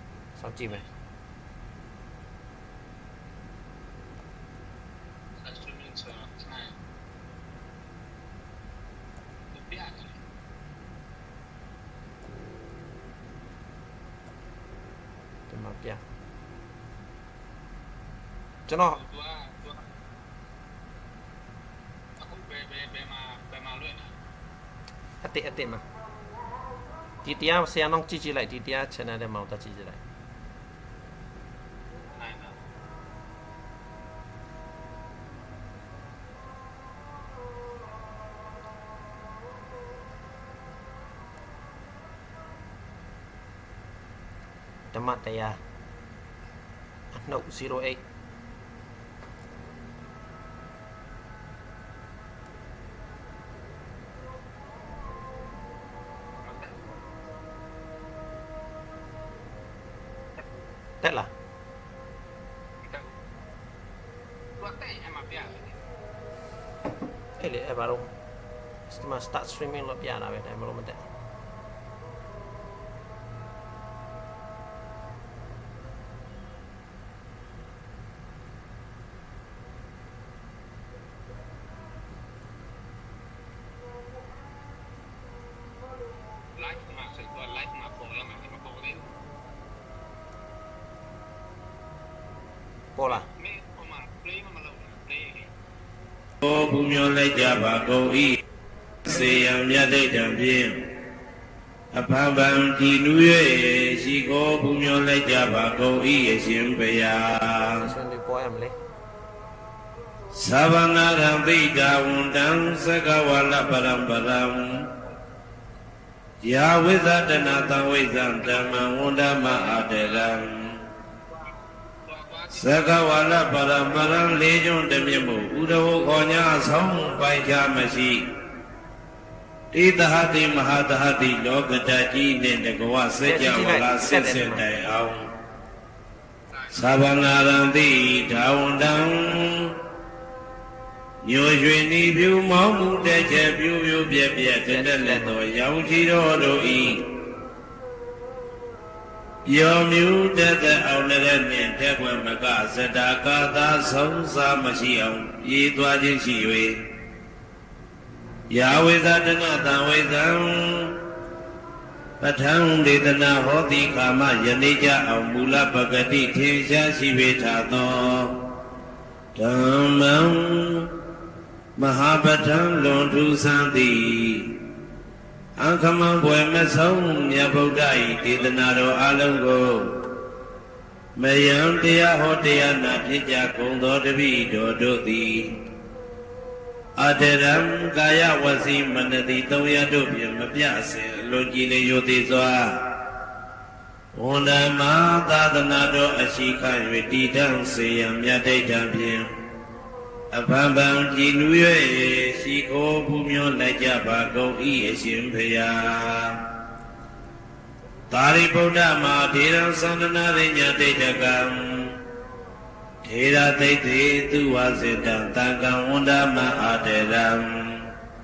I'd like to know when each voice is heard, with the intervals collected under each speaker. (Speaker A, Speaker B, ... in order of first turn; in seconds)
Speaker A: 0.4-0.9, 15.5-16.0, 18.7-19.0, 25.2-25.8, 27.2-30.0, 44.9-45.6, 47.1-48.0, 61.0-61.3, 67.4-68.1, 68.9-71.0, 93.0-93.3, 107.8-108.8, 133.2-134.7, 144.7-145.4
Speaker B: 5.4-6.8, 9.5-10.2, 18.9-19.9, 22.2-24.1, 32.1-32.6, 56.4-56.8, 62.8-63.1, 64.6-65.8, 86.6-89.1, 93.1-95.5, 122.1-122.9
Speaker C: 96.4-98.4, 99.0-100.8, 101.9-107.9, 110.3-114.9, 116.4-120.8, 122.5-128.3, 129.7-135.3, 136.7-139.7, 141.2-147.1, 149.5-156.8, 158.5-161.0, 162.2-168.4, 169.4-170.9, 171.8-174.5, 175.6-179.9, 181.2-185.5, 187.0-192.8, 194.2-199.3, 200.3-206.4, 208.1-211.9, 213.1-217.9